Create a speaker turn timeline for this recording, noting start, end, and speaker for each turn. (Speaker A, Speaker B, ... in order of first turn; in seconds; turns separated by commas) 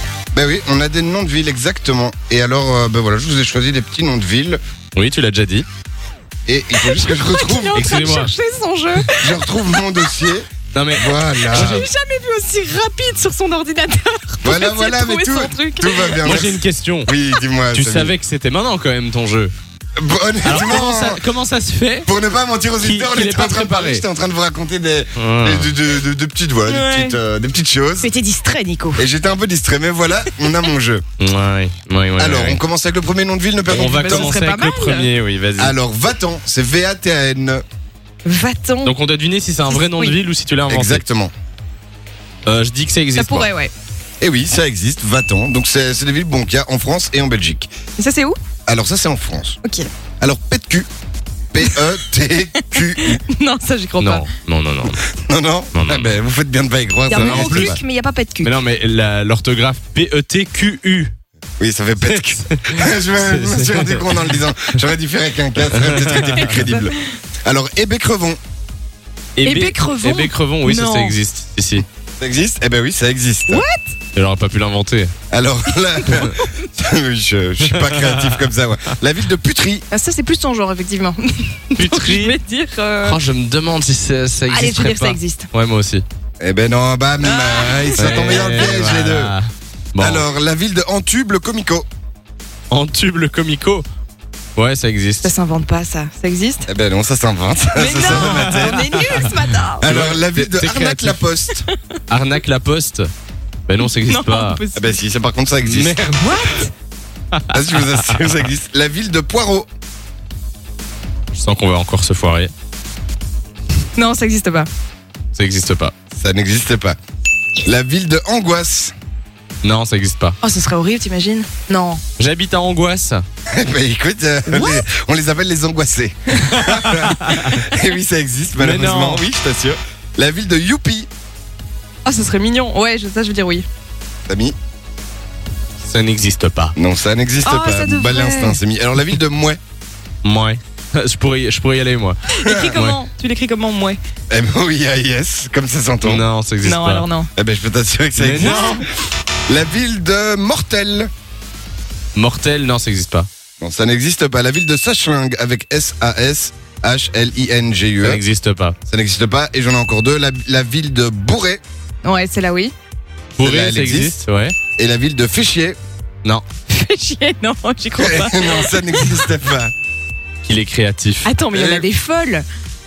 Speaker A: 0.3-4.6, Speaker B: 5.0-5.7, Speaker A: 6.5-7.8, Speaker C: 6.8-9.4, Speaker B: 7.7-8.3, Speaker A: 9.2-11.9, Speaker B: 10.7-11.9, Speaker C: 11.4-16.2, Speaker A: 14.4-18.1, Speaker B: 16.2-17.1, Speaker B: 17.7-19.5, Speaker A: 20.0-21.2, Speaker B: 20.4-22.1, Speaker A: 22.1-28.1, Speaker B: 22.8-24.0, Speaker B: 25.1-25.7, Speaker C: 26.6-27.2, Speaker C: 28.0-29.0, Speaker A: 29.0-31.0, Speaker B: 31.2-32.6, Speaker A: 32.2-34.4, Speaker B: 33.7-35.8, Speaker C: 33.9-35.1, Speaker A: 35.6-37.6, Speaker C: 38.2-38.9, Speaker B: 38.8-41.0, Speaker C: 39.7-40.2, Speaker A: 40.7-41.3, Speaker B: 42.5-43.5, Speaker C: 43.1-43.7, Speaker A: 44.2-47.7, Speaker C: 48.0-48.4, Speaker A: 48.7-49.6, Speaker A: 50.2-50.9, Speaker A: 51.5-53.2, Speaker C: 52.7-54.2, Speaker B: 54.0-55.0, Speaker A: 55.1-57.8, Speaker B: 55.7-56.1, Speaker C: 57.1-58.5, Speaker B: 57.1-57.8, Speaker B: 58.4-61.1, Speaker A: 61.6-68.4, Speaker B: 62.0-64.4, Speaker B: 65.7-66.6, Speaker C: 66.2-67.0, Speaker B: 69.3-71.8, Speaker C: 69.4-71.2, Speaker A: 72.2-73.6, Speaker C: 73.5-73.9, Speaker B: 74.1-75.1, Speaker A: 75.3-79.8, Speaker C: 76.0-76.5, Speaker B: 77.7-78.5, Speaker C: 79.9-83.2, Speaker B: 81.7-82.3, Speaker B: 83.0-86.0, Speaker C: 84.5-85.5, Speaker A: 86.4-89.3, Speaker C: 87.2-88.8, Speaker B: 88.0-90.2, Speaker A: 90.0-91.9, Speaker B: 92.7-93.8, Speaker B: 94.5-95.3, Speaker C: 95.2-96.7, Speaker A: 96.7-99.2, Speaker C: 97.7-100.0, Speaker B: 98.1-99.3, Speaker A: 99.8-101.6, Speaker B: 99.8-101.2, Speaker B: 102.1-103.1, Speaker B: 103.7-104.6, Speaker C: 104.0-105.0, Speaker A: 104.7-106.1, Speaker B: 105.6-106.4, Speaker C: 106.2-106.7, Speaker B: 107.3-108.3, Speaker A: 107.5-109.7, Speaker B: 111.3-112.5, Speaker C: 114.0-114.7, Speaker B: 115.3-115.9, Speaker A: 116.1-117.0, Speaker A: 117.6-118.9, Speaker B: 119.6-120.4, Speaker C: 120.4-122.0, Speaker B: 122.2-123.2, Speaker A: 123.5-131.1, Speaker C: 124.5-124.8, Speaker B: 126.5-127.5, Speaker B: 128.6-129.2, Speaker C: 132.0-133.7, Speaker A: 134.3-134.6, Speaker B: 135.8-136.7, Speaker A: 136.8-139.6, Speaker C: 137.4-138.6, Speaker B: 140.2-142.2, Speaker C: 142.3-144.0, Speaker A: 142.4-142.8, Speaker B: 142.7-143.0, Speaker A: 144.3-146.2, Speaker B: 146.0-147.1, Speaker C: 146.6-147.3, Speaker A: 147.3-148.9, Speaker B: 148.2-148.8, Speaker C: 148.4-148.7, Speaker A: 149.5-151.1, Speaker B: 152.1-153.3, Speaker A: 153.6-158.2, Speaker B: 158.0-158.8, Speaker A: 158.9-161.6, Speaker C: 162.0-162.7, Speaker B: 163.4-164.5, Speaker A: 163.4-164.2, Speaker A: 164.8-165.8, Speaker C: 166.7-169.3, Speaker A: 168.0-169.7, Speaker B: 170.4-171.3, Speaker C: 171.2-172.4, Speaker A: 171.5-171.8